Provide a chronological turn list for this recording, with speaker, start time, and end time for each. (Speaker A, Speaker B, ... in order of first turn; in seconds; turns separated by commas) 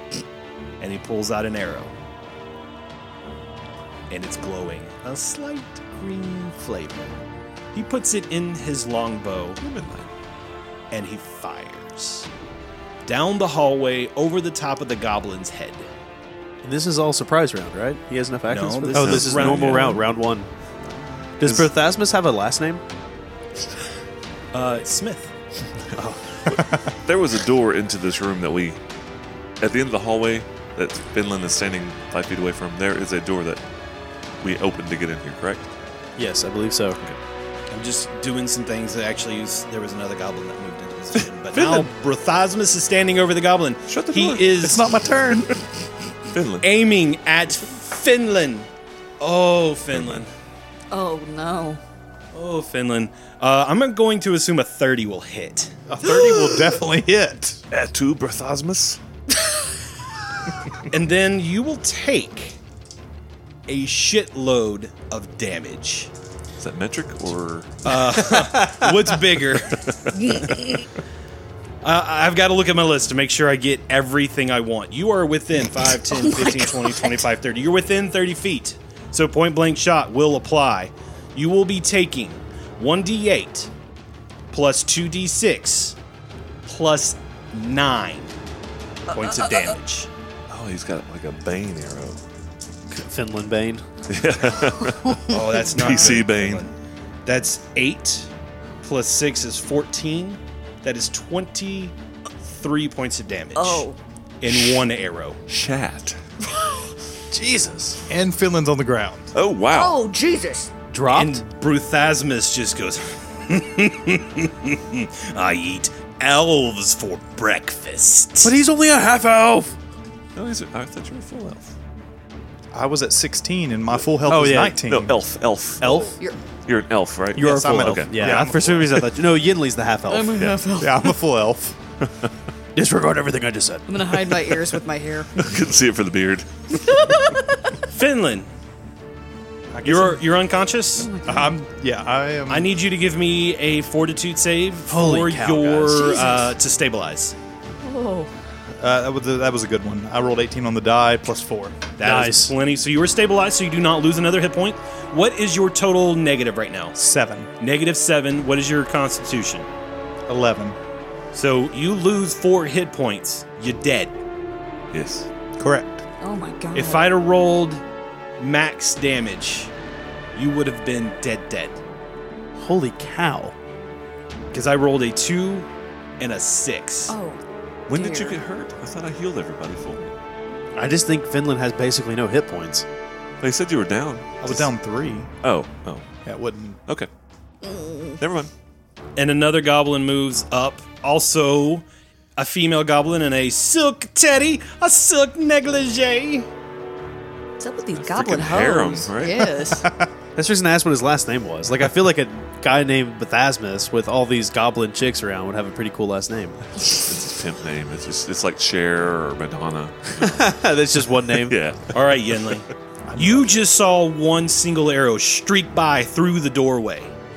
Speaker A: 0.8-1.9, Speaker A: 4.1-7.1, Speaker A: 7.7-9.6, Speaker B: 9.6-10.1, Speaker A: 10.9-12.3, Speaker A: 13.0-15.9, Speaker C: 16.6-20.5, Speaker A: 18.5-20.0, Speaker B: 18.9-20.1, Speaker C: 21.4-22.8, Speaker B: 21.4-21.7, Speaker A: 24.5-25.3, Speaker B: 26.4-28.8, Speaker B: 29.6-33.6, Speaker B: 34.4-35.7, Speaker C: 36.2-37.0, Speaker A: 37.7-44.8, Speaker B: 41.5-41.9, Speaker B: 43.9-44.8, Speaker D: 44.6-45.6, Speaker B: 46.3-46.7, Speaker A: 46.6-48.7, Speaker A: 49.2-50.3, Speaker B: 49.9-50.2, Speaker E: 50.9-51.8, Speaker A: 52.3-55.8, Speaker D: 55.9-57.6, Speaker E: 56.0-56.7, Speaker B: 57.7-59.0, Speaker A: 60.9-62.6, Speaker A: 63.7-66.1, Speaker B: 66.6-68.4, Speaker A: 67.8-70.5, Speaker E: 70.1-70.6, Speaker A: 71.8-83.7, Speaker E: 76.3-76.9, Speaker A: 84.5-86.0, Speaker A: 86.7-88.3, Speaker A: 89.1-90.1, Speaker B: 90.5-92.2, Speaker C: 92.9-93.8, Speaker B: 94.1-96.7, Speaker E: 95.3-96.1, Speaker A: 95.3-96.7, Speaker A: 97.2-98.3, Speaker A: 98.8-103.8, Speaker E: 103.5-104.0, Speaker A: 104.4-105.4, Speaker B: 105.5-106.2, Speaker E: 106.5-106.9, Speaker C: 107.3-108.0, Speaker D: 108.1-109.3, Speaker B: 109.3-110.0, Speaker E: 109.7-110.7, Speaker C: 110.9-111.4, Speaker A: 111.1-118.5, Speaker C: 118.4-119.7, Speaker B: 120.3-121.7, Speaker D: 122.7-125.2, Speaker C: 124.2-124.8, Speaker B: 124.8-126.1, Speaker C: 125.8-126.1, Speaker B: 126.6-128.5, Speaker C: 127.3-130.4, Speaker D: 127.3-129.1, Speaker E: 130.1-131.2, Speaker B: 130.3-130.6, Speaker D: 130.8-131.8, Speaker B: 132.0-132.3, Speaker C: 132.7-134.0, Speaker E: 133.9-135.5, Speaker B: 135.4-136.7, Speaker E: 136.7-137.8, Speaker A: 137.9-138.5, Speaker D: 139.7-140.2, Speaker A: 139.8-141.1, Speaker E: 141.0-141.6, Speaker D: 141.2-142.7, Speaker A: 142.5-147.3, Speaker C: 144.9-146.2, Speaker E: 145.9-146.5, Speaker E: 147.8-148.3, Speaker D: 148.8-151.8, Speaker A: 152.0-157.0, Speaker C: 152.0-152.5, Speaker D: 157.0-157.5, Speaker A: 157.6-159.7, Speaker D: 160.3-160.8, Speaker A: 161.3-164.1, Speaker B: 164.9-165.3, Speaker D: 165.6-166.0, Speaker E: 166.2-167.1, Speaker A: 166.7-167.8, Speaker A: 168.4-169.7, Speaker A: 170.3-171.8, Speaker C: 172.6-173.5, Speaker A: 174.5-175.7, Speaker A: 176.2-177.1, Speaker E: 177.1-178.4, Speaker B: 177.9-180.1, Speaker C: 180.8-182.8, Speaker B: 183.4-184.7, Speaker D: 184.4-185.3, Speaker B: 185.4-186.1, Speaker D: 186.2-186.8, Speaker E: 187.6-188.2, Speaker B: 188.2-188.5, Speaker A: 189.2-196.5, Speaker E: 197.6-199.9, Speaker B: 197.9-199.6, Speaker D: 199.6-200.1, Speaker C: 200.3-206.6, Speaker B: 206.9-210.5, Speaker C: 210.2-211.6, Speaker B: 211.3-212.6, Speaker A: 211.9-217.1, Speaker D: 213.1-213.5